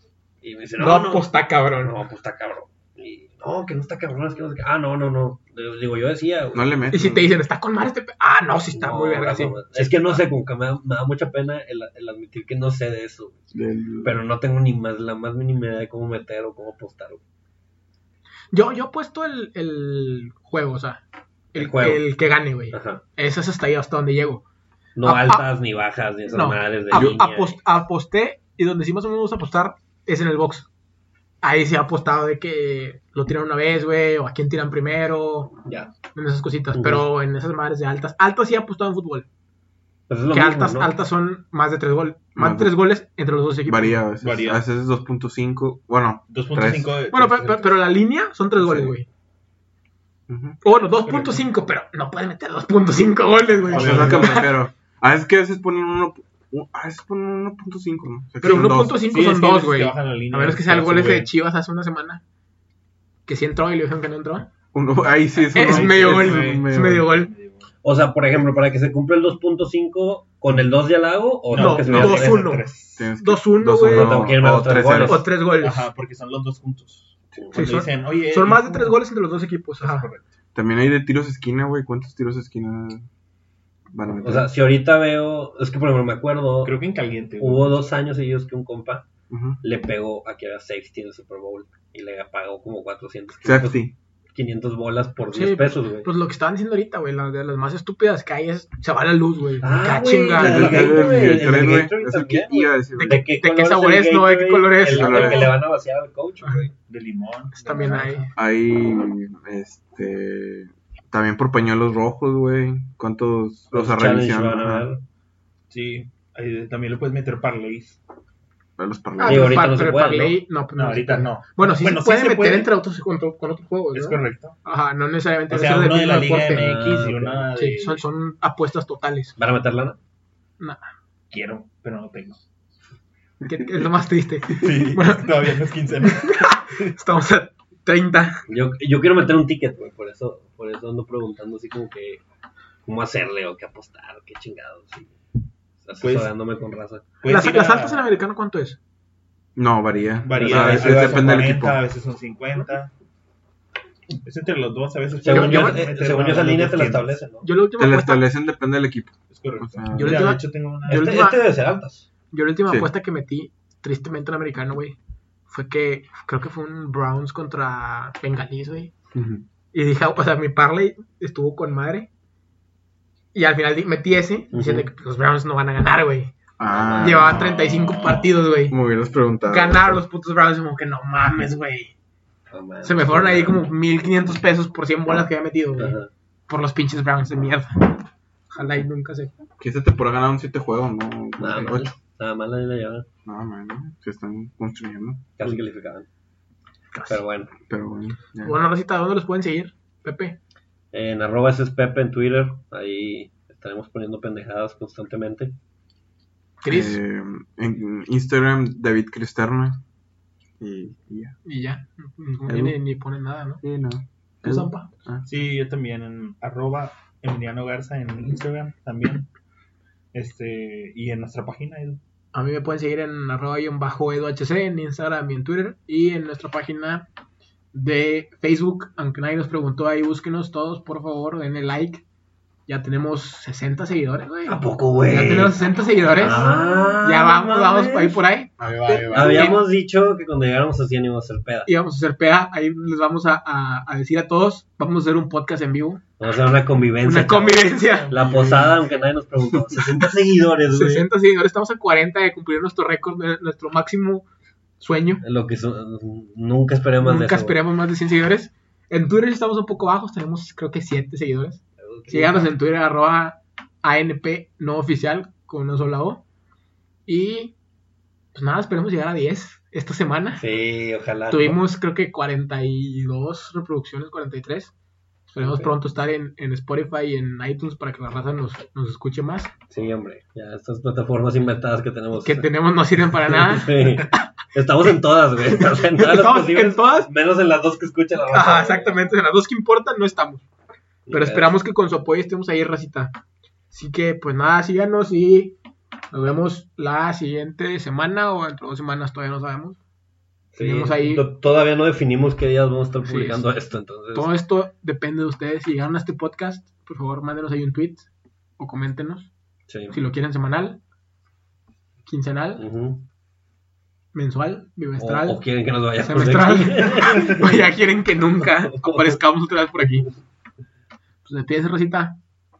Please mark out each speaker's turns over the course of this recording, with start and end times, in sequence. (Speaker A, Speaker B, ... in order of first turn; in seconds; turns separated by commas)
Speaker A: 0.4-6.9, Speaker B: 0.8-1.9, Speaker C: 6.5-7.3, Speaker B: 6.9-10.2, Speaker A: 8.7-13.4, Speaker C: 13.5-14.1, Speaker A: 14.0-17.2, Speaker B: 18.5-21.0, Speaker B: 21.5-24.4, Speaker A: 21.5-22.0, Speaker A: 22.7-23.0, Speaker A: 24.9-27.6, Speaker B: 25.0-25.4, Speaker B: 26.3-30.7, Speaker C: 26.9-27.2, Speaker B: 31.4-35.5, Speaker A: 35.6-35.9, Speaker B: 36.1-39.3, Speaker A: 36.7-37.0, Speaker A: 40.1-40.9, Speaker B: 40.3-44.0, Speaker C: 42.4-42.7, Speaker C: 43.6-46.9, Speaker D: 44.2-44.6, Speaker D: 46.3-47.8, Speaker B: 47.1-49.1, Speaker C: 48.6-48.9, Speaker C: 50.3-50.6, Speaker B: 50.6-54.6, Speaker D: 51.0-51.4, Speaker D: 53.7-54.5, Speaker C: 53.7-59.1, Speaker B: 58.4-62.2, Speaker D: 58.5-61.3, Speaker B: 63.2-64.5, Speaker C: 64.7-67.1, Speaker D: 65.4-67.7, Speaker B: 65.5-67.3, Speaker A: 67.8-72.5, Speaker D: 71.5-73.1, Speaker B: 71.5-74.3, Speaker C: 71.9-72.2, Speaker C: 73.0-75.2, Speaker A: 73.8-75.3, Speaker B: 75.0-75.9, Speaker D: 75.5-79.0, Speaker B: 77.5-80.1, Speaker D: 79.8-80.3, Speaker C: 80.5-83.0, Speaker C: 83.9-84.5, Speaker A: 84.2-86.7, Speaker D: 86.6-87.8, Speaker A: 87.4-89.1, Speaker C: 89.3-89.6, Speaker A: 89.6-96.1, Speaker C: 93.4-93.9, Speaker B: 95.2-101.2, Speaker A: 99.6-106.7, Speaker C: 100.3-103.2, Speaker B: 102.9-105.6, Speaker C: 104.9-105.5, Speaker B: 106.4-106.7, Speaker D: 106.9-108.3, Speaker B: 107.5-108.3, Speaker C: 108.3-114.9, Speaker A: 113.7-115.0, Speaker D: 115.7-118.0, Speaker C: 118.8-119.7, Speaker B: 119.2-129.3, Speaker A: 119.2-120.4, Speaker D: 120.7-122.7, Speaker D: 123.9-124.5, Speaker D: 125.5-128.0, Speaker A: 126.5-127.5, Speaker A: 129.4-130.0, Speaker B: 130.6-130.9, Speaker D: 131.3-132.4, Speaker B: 133.4-138.4, Speaker D: 134.5-136.9, Speaker A: 138.5-142.2, Speaker A: 142.8-145.1, Speaker A: 145.8-147.0, Speaker D: 146.0-146.3, Speaker D: 147.2-148.1, Speaker B: 147.2-148.8, Speaker C: 149.6-151.8, Speaker D: 150.2-152.9, Speaker A: 150.3-151.5, Speaker D: 154.2-157.2, Speaker A: 155.2-157.5, Speaker B: 155.2-155.9, Speaker B: 157.4-158.2, Speaker C: 157.8-160.3, Speaker D: 159.3-161.2, Speaker B: 159.9-161.4, Speaker A: 160.9-162.1, Speaker B: 162.3-164.9, Speaker B: 165.5-168.9, Speaker C: 169.1-169.4, Speaker B: 169.7-172.1, Speaker B: 173.3-176.3, Speaker A: 174.5-174.9, Speaker C: 176.6-177.4, Speaker A: 176.7-177.2, Speaker B: 177.0-178.8, Speaker D: 177.1-178.4, Speaker C: 178.7-180.0, Speaker B: 179.5-181.9, Speaker A: 182.5-183.6, Speaker B: 182.8-189.3, Speaker A: 185.8-186.1, Speaker C: 189.6-191.9, Speaker A: 191.4-193.1, Speaker C: 193.2-195.5, Speaker A: 195.4-196.1, Speaker B: 196.9-197.2, Speaker A: 197.1-197.5, Speaker C: 197.7-198.6, Speaker B: 198.4-200.4, Speaker A: 200.9-205.5, Speaker B: 206.6-207.0, Speaker C: 206.7-209.8, Speaker C: 210.6-211.3, Speaker B: 211.4-213.6, Speaker C: 212.5-212.8, Speaker C: 213.6-215.2, Speaker B: 214.4-214.9, Speaker D: 215.2-219.3, Speaker D: 220.1-222.0, Speaker B: 222.3-227.1, Speaker B: 227.7-232.0, Speaker B: 232.7-238.5, Speaker A: 234.4-238.2, Speaker C: 238.6-239.6, Speaker A: 238.9-241.7, Speaker D: 239.0-239.4, Speaker B: 239.1-239.6, Speaker B: 241.7-246.0, Speaker A: 246.2-251.1, Speaker B: 247.0-248.4, Speaker D: 247.9-248.8, Speaker B: 250.7-254.2, Speaker B: 254.8-255.2, Speaker A: 255.2-257.6, Speaker B: 257.0-266.2, Speaker A: 261.8-262.5, Speaker B: 267.1-267.5, Speaker B: 268.3-270.4, Speaker A: 270.4-271.6, Speaker B: 271.3-274.7, Speaker B: 275.3-279.6, Speaker A: 275.4-275.7, Speaker A: 279.7-282.5, Speaker B: 282.2-284.3, Speaker A: 283.1-289.0, Speaker B: 285.5-287.1, Speaker B: 288.3-290.4, Speaker A: 291.1-291.5, Speaker B: 291.1-293.1, Speaker B: 293.7-295.6, Speaker B: 296.1-299.8, Speaker A: 300.5-304.3, Speaker B: 300.6-301.2, Speaker B: 303.1-303.4, Speaker B: 304.1-308.1, Speaker B: 308.6-309.3, Speaker A: 309.7-309.9, Speaker B: 309.9-310.8, Speaker B: 312.1-312.6, Speaker A: 312.6-313.0, Speaker B: 314.1-315.4, Speaker A: 315.0-317.6, Speaker B: 316.0-320.1, Speaker A: 318.4-319.2, Speaker B: 321.2-322.2